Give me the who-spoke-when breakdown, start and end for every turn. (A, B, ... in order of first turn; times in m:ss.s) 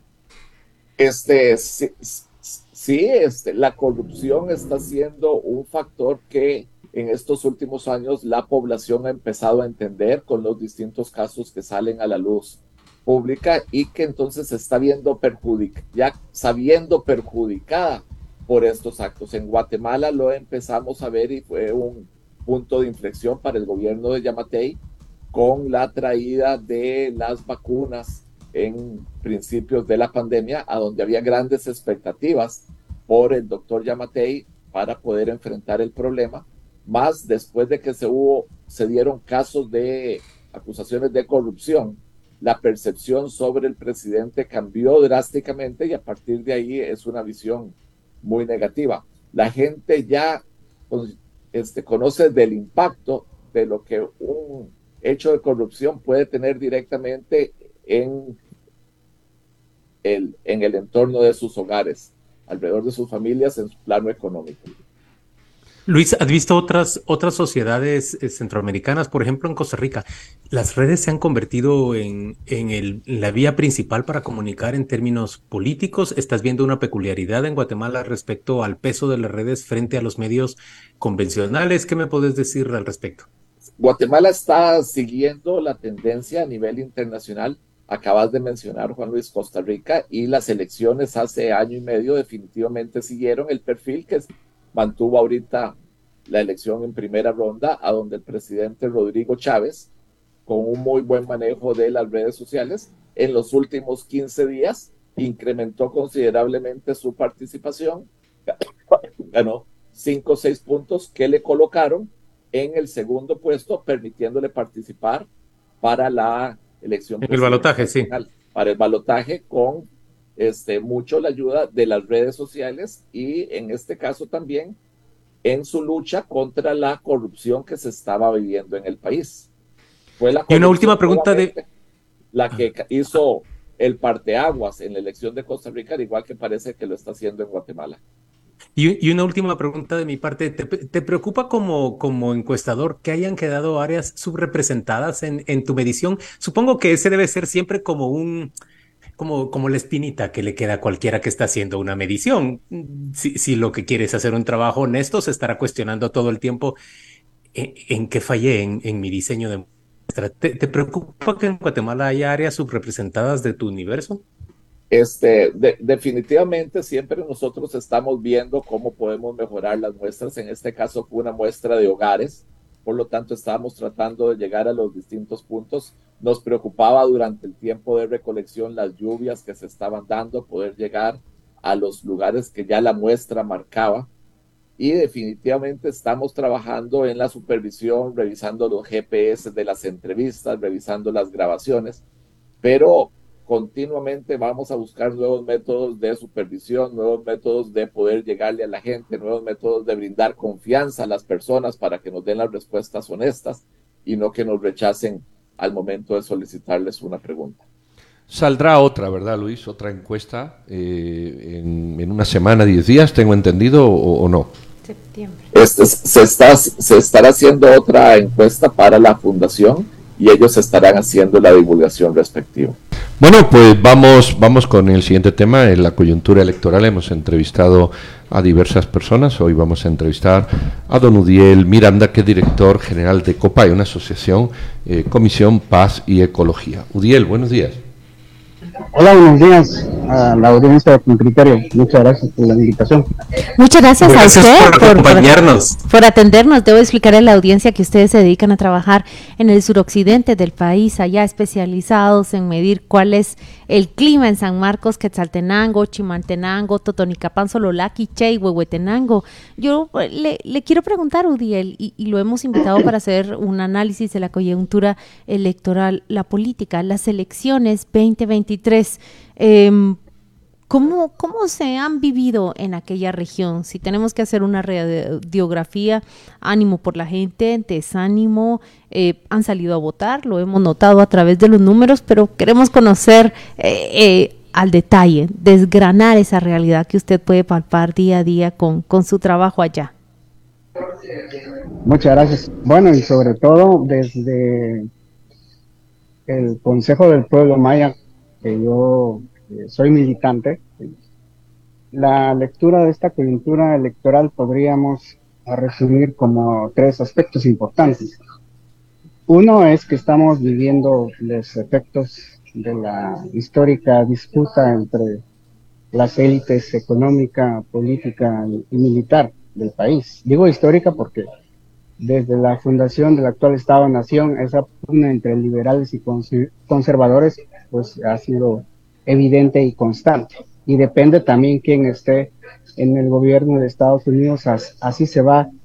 0:01.0-0:24.8 A
0:25.3-0:58.4 A
1:00.0-1:04.7 A
1:05.9-1:23.3 B
1:23.8-1:35.8 A
1:36.3-1:39.9 A
1:40.5-1:55.3 A
1:55.8-2:04.8 A
1:57.2-1:58.1 B
2:05.4-2:09.5 A
2:10.2-2:11.7 A
2:10.5-2:11.5 B
2:12.3-2:18.0 A
2:18.8-2:28.5 B
2:29.2-2:36.8 B
2:37.5-2:44.2 B
2:44.9-3:04.1 A
3:04.8-3:12.0 A
3:12.6-3:27.6 A
3:28.3-3:34.5 C
3:34.8-3:35.4 D
3:35.5-3:42.8 A
3:43.2-3:57.8 C
3:58.9-4:03.1 E
4:03.6-4:30.0 D
4:04.0-4:05.8 B
4:30.7-4:49.9 D
4:51.8-4:54.9 E
4:56.3-5:00.9 E
5:01.9-5:08.2 E
5:09.3-5:15.2 E
5:15.9-5:21.3 E
5:22.0-5:35.5 E